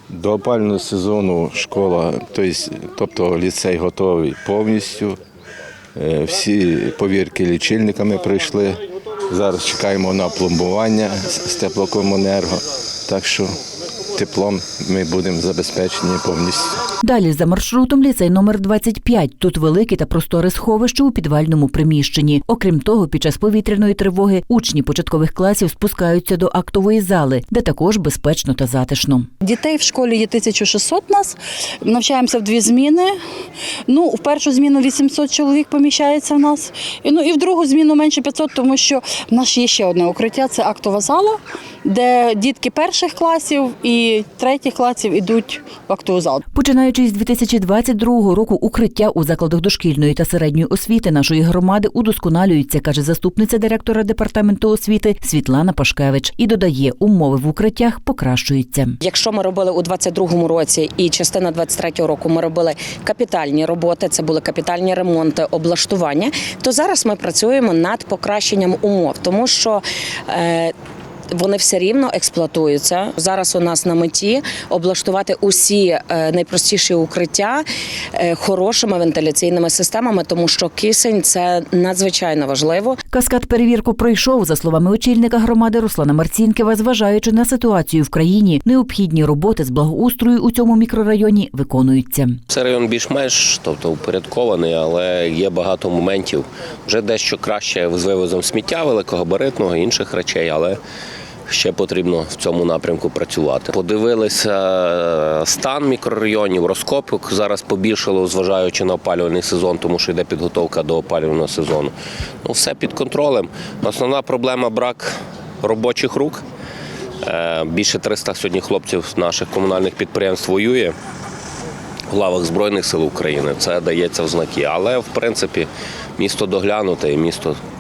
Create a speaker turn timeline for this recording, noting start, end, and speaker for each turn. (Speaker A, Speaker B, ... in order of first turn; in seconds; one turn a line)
Speaker A: 0.1-5.2
Speaker A: 5.9-13.5
Speaker A: 14.1-16.7
Speaker B: 17.0-29.3
Speaker C: 29.4-33.1
Speaker C: 33.9-46.4
Speaker B: 46.5-59.0
Speaker D: 59.0-70.7
Speaker D: 71.3-77.6
Speaker D: 78.2-83.0
Speaker B: 83.1-92.4
Speaker E: 92.5-100.8
Speaker E: 101.5-116.4
Speaker E: 117.2-120.9
Speaker E: 122.1-127.6